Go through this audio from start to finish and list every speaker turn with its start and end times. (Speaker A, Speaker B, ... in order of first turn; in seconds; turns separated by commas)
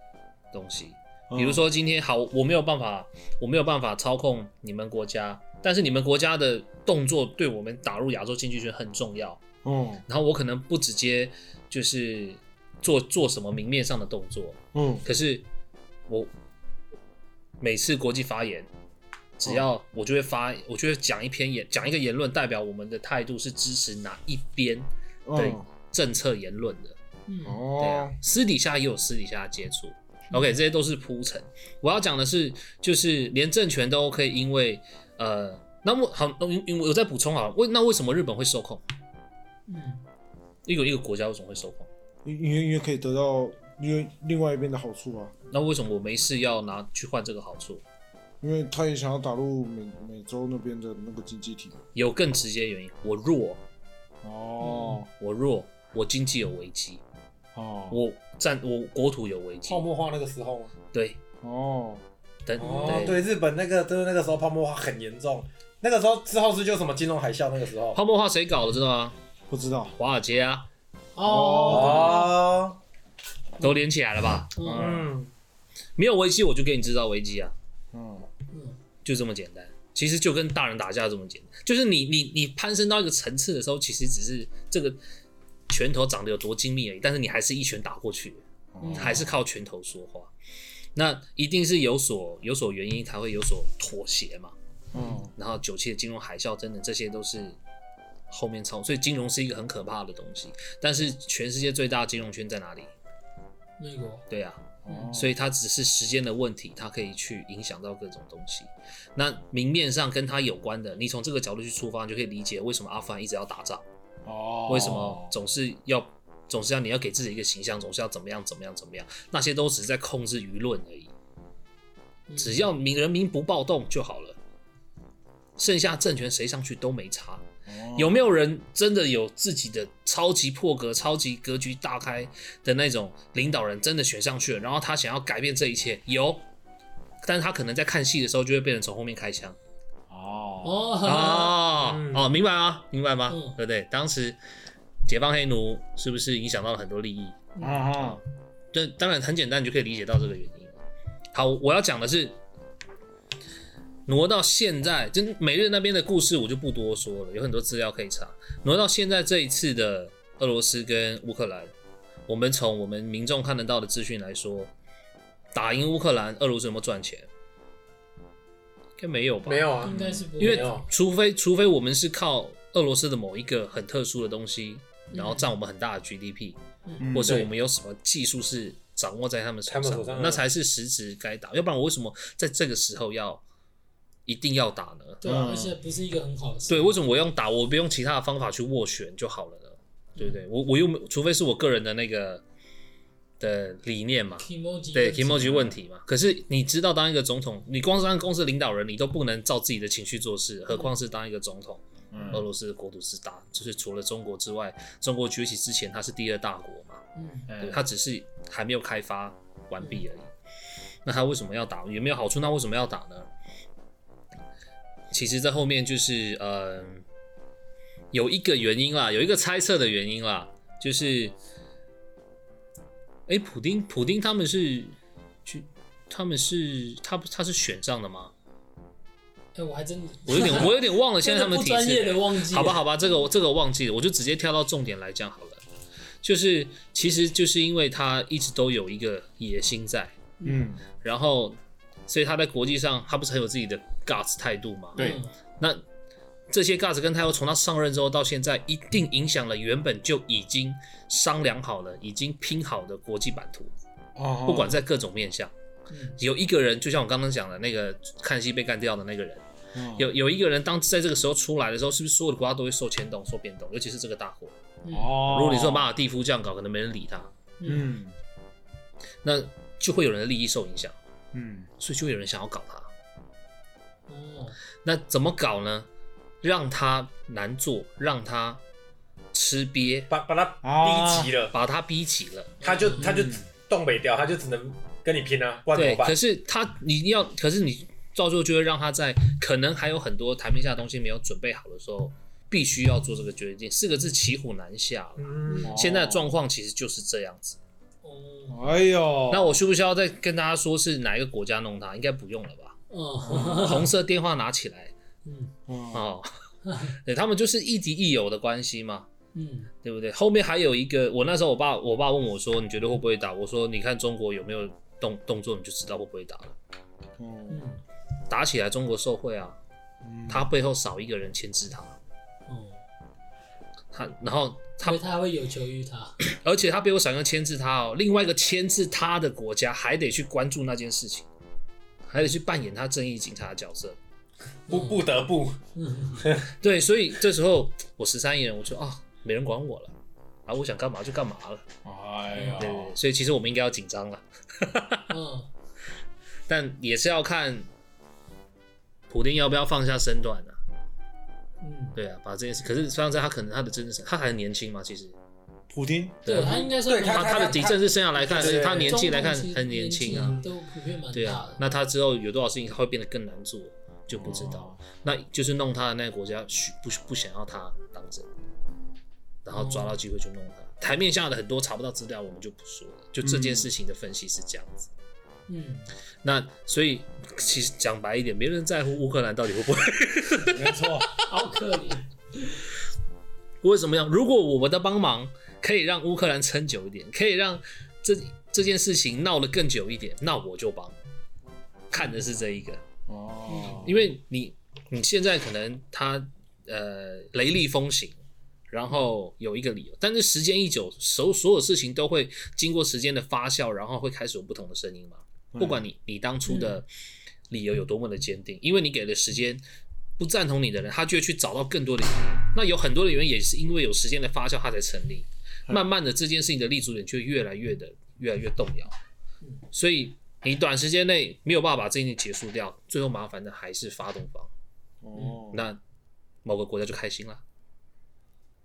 Speaker A: 0.5-9.4, Speaker B: 1.3-1.6, Speaker B: 9.6-10.0, Speaker A: 10.1-15.4, Speaker B: 14.7-15.1, Speaker A: 17.6-18.7, Speaker A: 19.4-26.9, Speaker B: 25.2-25.6, Speaker C: 27.3-27.6, Speaker B: 27.4-28.2, Speaker A: 27.8-38.8, Speaker C: 30.3-30.6, Speaker C: 39.7-40.0, Speaker A: 40.6-41.9, Speaker B: 42.2-45.3, Speaker A: 45.5-47.8, Speaker B: 48.4-51.8, Speaker A: 51.9-53.6, Speaker B: 54.2-55.1, Speaker C: 54.6-55.0, Speaker A: 55.2-57.0, Speaker B: 57.5-58.0, Speaker A: 57.9-59.9, Speaker D: 59.7-60.7, Speaker A: 60.9-61.2, Speaker B: 61.4-62.0, Speaker A: 62.5-63.2, Speaker C: 62.6-63.2, Speaker D: 62.6-68.0, Speaker A: 67.9-69.2, Speaker B: 69.5-69.9, Speaker A: 70.0-70.7, Speaker C: 71.1-72.3, Speaker B: 71.2-72.3, Speaker D: 71.7-72.8, Speaker A: 73.6-74.5, Speaker C: 74.5-74.9, Speaker B: 74.6-75.1, Speaker D: 74.7-75.3, Speaker A: 76.0-77.5, Speaker B: 77.9-78.3, Speaker C: 78.5-78.8, Speaker A: 79.0-85.0, Speaker A: 85.7-88.4, Speaker B: 88.7-89.3, Speaker C: 88.8-89.2, Speaker A: 88.9-90.3, Speaker A: 90.9-94.5, Speaker B: 94.9-95.3, Speaker C: 94.9-95.2, Speaker A: 95.3-97.6, Speaker A: 98.3-102.9, Speaker C: 103.8-104.2, Speaker A: 104.3-113.8, Speaker B: 104.8-105.3, Speaker C: 104.9-105.1, Speaker B: 114.2-115.3, Speaker A: 114.7-121.1, Speaker C: 122.3-122.7, Speaker A: 122.4-124.4, Speaker A: 125.6-136.4, Speaker B: 127.7-128.2, Speaker A: 137.2-139.6, Speaker B: 140.1-140.9, Speaker C: 140.6-141.6, Speaker A: 141.0-144.4, Speaker D: 141.7-142.3, Speaker C: 143.3-143.6, Speaker A: 145.1-148.2, Speaker C: 147.6-147.9, Speaker B: 147.6-148.2, Speaker A: 148.7-150.7, Speaker A: 151.3-152.4, Speaker A: 154.1-161.7, Speaker A: 162.3-164.7, Speaker A: 165.5-167.3, Speaker A: 169.0-169.8, Speaker D: 169.4-170.8, Speaker C: 169.8-170.8, Speaker B: 169.9-170.3, Speaker A: 170.4-183.4, Speaker C: 175.1-175.5, Speaker B: 177.0-177.4, Speaker D: 177.2-177.5, Speaker D: 179.7-180.4, Speaker A: 184.2-185.2, Speaker C: 185.2-186.9, Speaker B: 185.2-185.8, Speaker A: 186.7-192.4, Speaker A: 193.4-207.0, Speaker C: 194.4-195.7, Speaker B: 195.5-195.7, Speaker B: 202.1-202.4, Speaker C: 202.1-202.4, Speaker C: 207.1-207.5, Speaker B: 207.5-207.8, Speaker A: 207.6-210.3, Speaker A: 211.0-213.3, Speaker A: 215.1-217.0, Speaker A: 218.1-221.3, Speaker A: 223.3-228.3, Speaker C: 229.5-232.8, Speaker A: 230.3-235.6, Speaker A: 236.2-240.1, Speaker C: 240.4-240.7, Speaker B: 240.4-240.8, Speaker A: 241.0-245.8, Speaker C: 244.9-245.3, Speaker A: 246.5-253.7, Speaker B: 254.2-254.8, Speaker A: 254.4-255.5, Speaker C: 255.9-256.2, Speaker A: 256.2-259.4, Speaker B: 259.7-260.1, Speaker A: 259.9-264.5, Speaker C: 264.8-265.3, Speaker B: 264.9-265.9, Speaker A: 265.2-267.3, Speaker C: 267.6-267.9, Speaker B: 267.6-268.1, Speaker A: 269.2-270.9, Speaker B: 271.3-271.7, Speaker A: 271.8-272.9, Speaker C: 274.1-274.6, Speaker A: 274.8-275.9, Speaker A: 276.4-278.6, Speaker A: 279.3-280.1, Speaker D: 280.1-281.5, Speaker B: 280.6-281.3, Speaker A: 281.5-282.7, Speaker C: 282.6-283.1, Speaker D: 282.6-286.1, Speaker B: 283.0-283.4, Speaker A: 285.7-297.6, Speaker D: 295.2-295.8, Speaker C: 295.5-295.8, Speaker B: 295.7-296.4, Speaker C: 298.0-298.7, Speaker B: 298.5-299.6, Speaker A: 299.3-302.8, Speaker C: 302.9-303.9, Speaker B: 303.3-303.7, Speaker A: 303.3-304.9, Speaker C: 305.2-305.5, Speaker B: 305.7-306.1, Speaker A: 305.9-306.3, Speaker C: 306.6-306.9, Speaker A: 306.9-309.1, Speaker C: 309.3-309.7, Speaker A: 309.8-316.5, Speaker B: 317.2-317.6, Speaker C: 317.5-317.8, Speaker A: 318.3-319.6, Speaker B: 320.0-320.5, Speaker A: 320.3-321.9, Speaker C: 322.5-322.8, Speaker A: 323.9-325.0, Speaker C: 324.8-326.2, Speaker A: 326.2-331.3, Speaker A: 332.1-334.0, Speaker D: 334.7-335.6, Speaker C: 334.7-335.0, Speaker C: 335.8-336.2, Speaker D: 336.2-336.5, Speaker A: 336.6-339.9, Speaker A: 340.5-341.6, Speaker D: 341.9-342.9, Speaker C: 342.3-342.7, Speaker A: 342.6-345.1, Speaker C: 345.1-345.5, Speaker A: 346.5-347.7, Speaker A: 349.1-350.6, Speaker C: 351.6-352.0, Speaker A: 351.9-355.1, Speaker B: 355.7-356.6, Speaker A: 356.2-360.4, Speaker C: 356.3-361.6, Speaker D: 356.8-359.0, Speaker A: 361.1-368.3, Speaker B: 364.1-364.8, Speaker A: 369.4-374.9, Speaker C: 369.5-370.0, Speaker B: 373.2-373.7, Speaker C: 375.5-375.9, Speaker A: 376.2-380.8, Speaker B: 380.4-381.1, Speaker C: 381.1-382.6, Speaker A: 383.6-390.9, Speaker A: 391.9-392.8, Speaker B: 393.1-394.0, Speaker C: 393.5-393.9, Speaker A: 393.7-398.1, Speaker A: 398.7-406.9, Speaker B: 405.5-405.8, Speaker C: 406.4-406.8, Speaker A: 407.5-409.6, Speaker A: 410.2-418.9, Speaker A: 419.7-424.5, Speaker B: 425.0-425.6, Speaker A: 425.5-425.8, Speaker A: 426.4-427.4